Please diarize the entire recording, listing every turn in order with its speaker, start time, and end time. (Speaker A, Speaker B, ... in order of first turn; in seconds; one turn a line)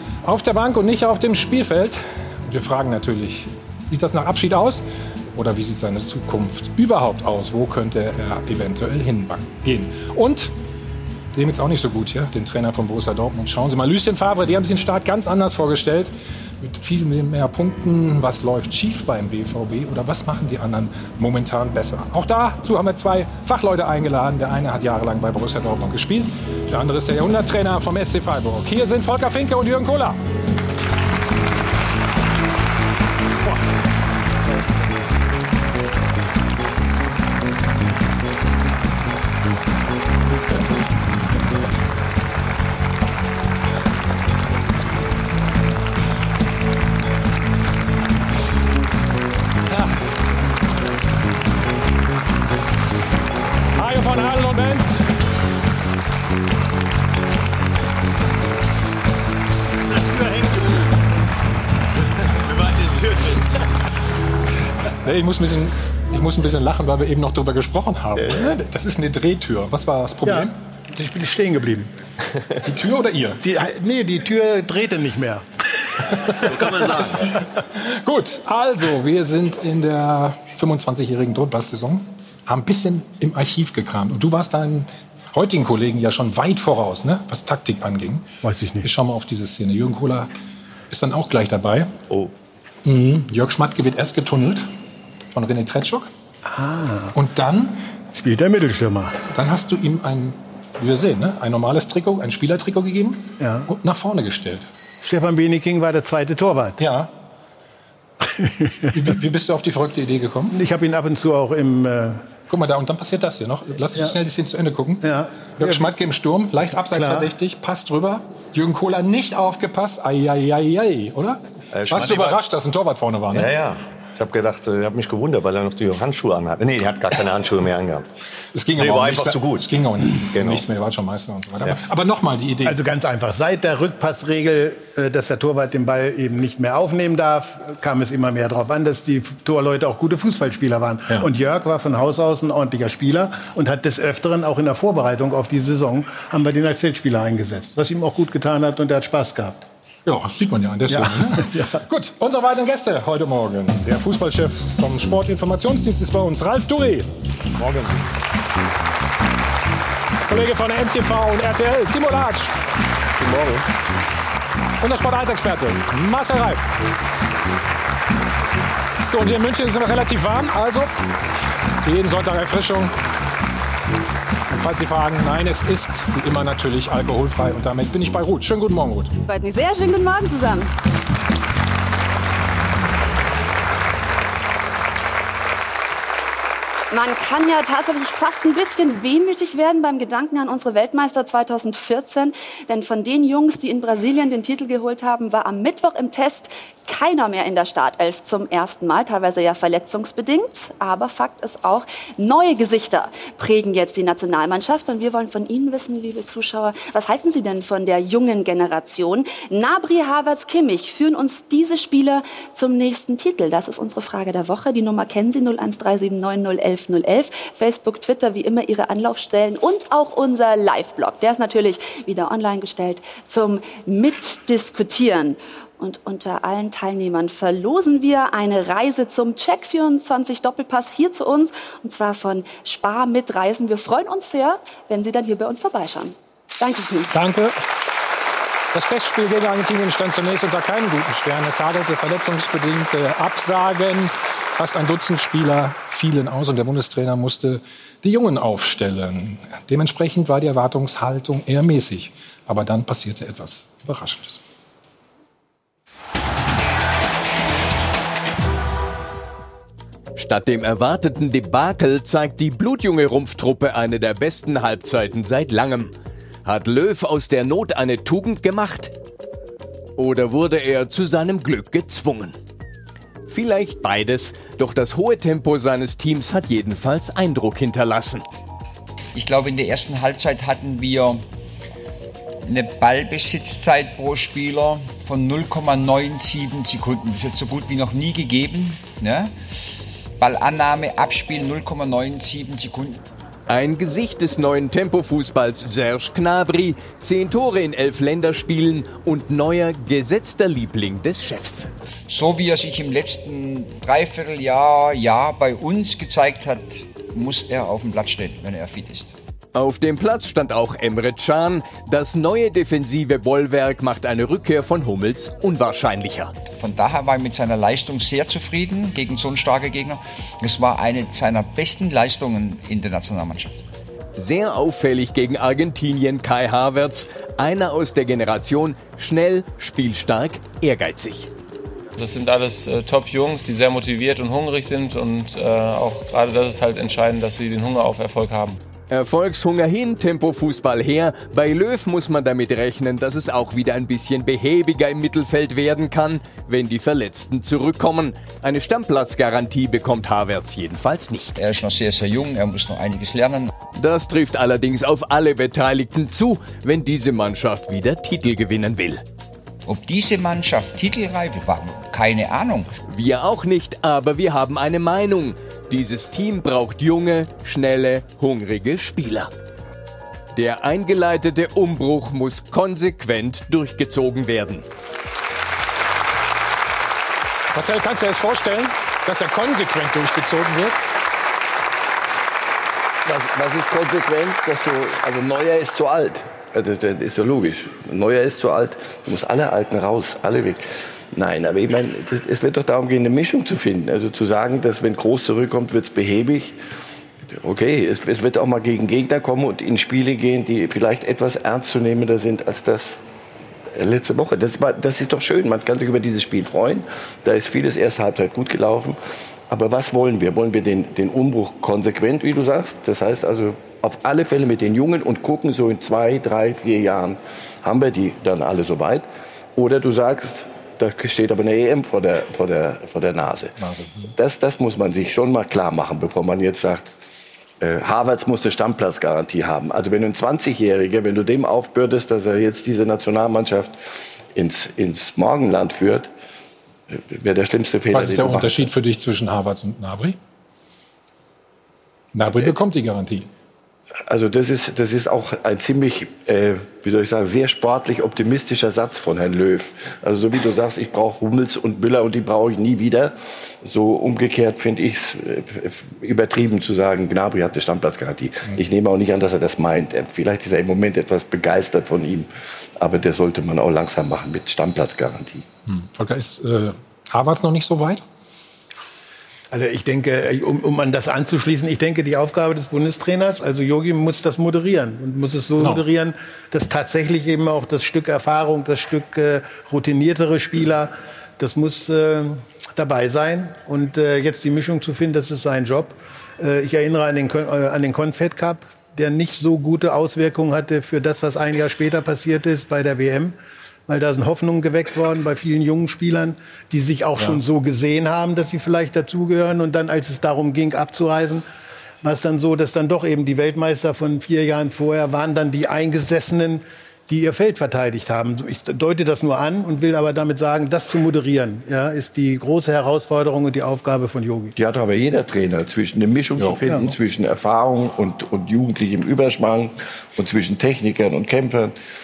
Speaker A: 0.2-10.5
Speaker A: 11.3-30.2
Speaker A: 53.8-54.9
Speaker B: 60.0-60.8
Speaker B: 62.1-63.5
Speaker A: 65.0-70.5
Speaker C: 70.2-71.9
Speaker A: 72.6-73.4
Speaker C: 73.4-76.9
Speaker B: 76.4-77.3
Speaker A: 77.8-88.3
Speaker C: 88.4-88.9
Speaker A: 88.8-90.3
Speaker A: 90.9-91.9
Speaker A: 92.8-94.7
Speaker A: 95.3-96.1
Speaker C: 96.5-97.1
Speaker A: 97.1-97.8
Speaker C: 98.1-99.2
Speaker A: 99.3-104.7
Speaker C: 103.4-103.7
Speaker C: 105.0-106.8
Speaker A: 106.8-107.1
Speaker C: 108.2-109.0
Speaker A: 108.9-110.6
Speaker C: 110.5-112.2
Speaker A: 112.5-123.5
Speaker C: 115.0-115.9
Speaker C: 116.9-117.3
Speaker B: 121.7-122.4
Speaker B: 123.3-128.1
Speaker A: 128.5-132.8
Speaker B: 128.7-129.7
Speaker B: 130.3-130.6
Speaker C: 132.7-149.6
Speaker A: 150.1-157.9
Speaker C: 150.9-151.8
Speaker A: 160.3-162.6
Speaker A: 163.2-163.6
Speaker A: 164.8-166.6
Speaker A: 169.1-170.9
Speaker A: 171.8-172.9
Speaker A: 174.5-179.1
Speaker D: 179.2-180.7
Speaker D: 186.9-237.1
Speaker A: 237.1-237.6
Speaker A: 238.7-254.4
Speaker E: 260.1-265.9
Speaker E: 266.4-268.9
Speaker E: 270.0-272.3
Speaker E: 273.3-278.2
Speaker F: 279.1-281.2
Speaker F: 282.4-289.3
Speaker F: 290.2-293.0
Speaker E: 293.5-301.7
Speaker F: 302.1-309.1
Speaker E: 309.5-316.3
Speaker F: 316.5-323.6
Speaker E: 324.1-331.3
Speaker G: 331.9-338.6
Speaker E: 338.9-351.4
Speaker F: 351.4-353.5
Speaker E: 353.7-359.0
Speaker F: 359.6-362.7
Speaker E: 362.9-369.3
Speaker E: 370.3-374.6
Speaker A: 377.5-380.8
Speaker H: 383.0-396.6
Speaker H: 397.3-403.0
Speaker H: 403.7-409.0
Speaker H: 409.5-423.6
Speaker A: 423.6-424.1
Speaker H: 424.1-426.9
Speaker H: 427.6-433.7
Speaker H: 434.3-436.1
Speaker H: 436.9-438.7
Speaker A: 437.9-440.2
Speaker A: 442.1-443.3
Speaker H: 444.1-462.3
Speaker H: 462.8-465.4
Speaker A: 465.7-468.0
Speaker C: 469.5-493.4
Speaker C: 493.9-501.4
Speaker C: 502.0-514.5
Speaker H: 514.5-521.7
Speaker C: 516.7-516.9